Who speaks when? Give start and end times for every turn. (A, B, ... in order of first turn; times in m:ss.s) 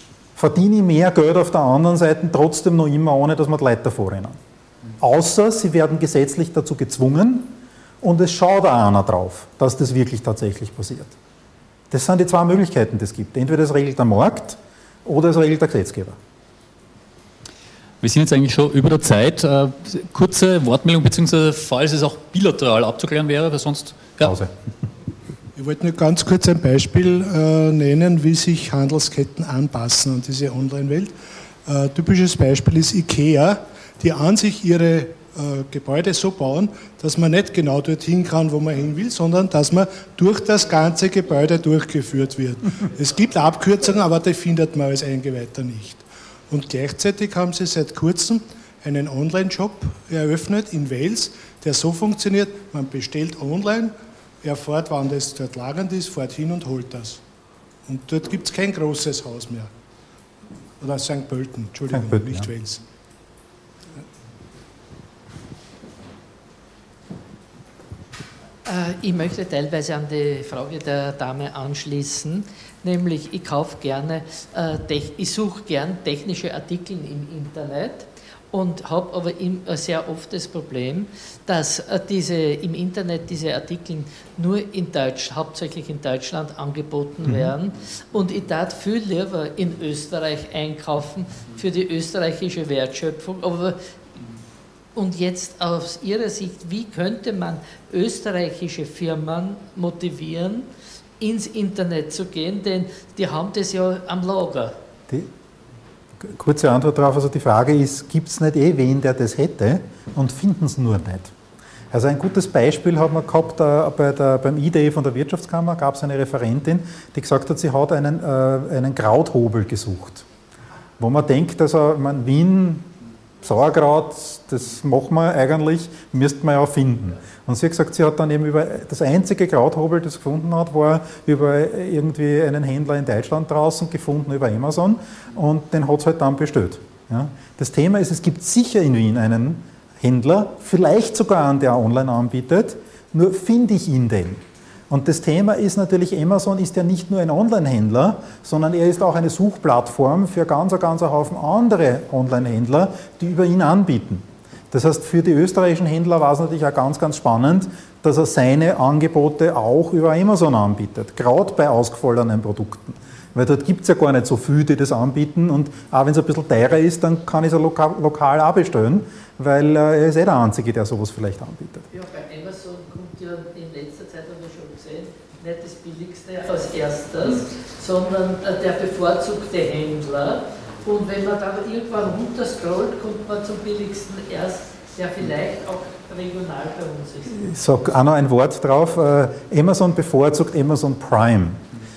0:00.4-0:04.4 A
0:05.0-0:11.1 A
0:11.9-0:16.2 A
0:18.0-0:24.3 B
0:24.2-0:24.5 A
0:25.6-0:31.1 C
0:31.6-0:57.2 C
0:57.8-0:59.7 C
1:00.8-1:02.8 C
1:01.9-1:02.5 A
1:08.6-1:33.8 D
1:27.2-1:27.5 A
1:34.9-1:40.7 D
1:41.2-1:44.8 D
1:46.2-1:51.3 A
1:51.9-2:00.2 A
2:01.0-2:02.9 A
2:03.4-2:51.9 A
2:51.9-3:07.4 D
3:07.3-3:11.6 A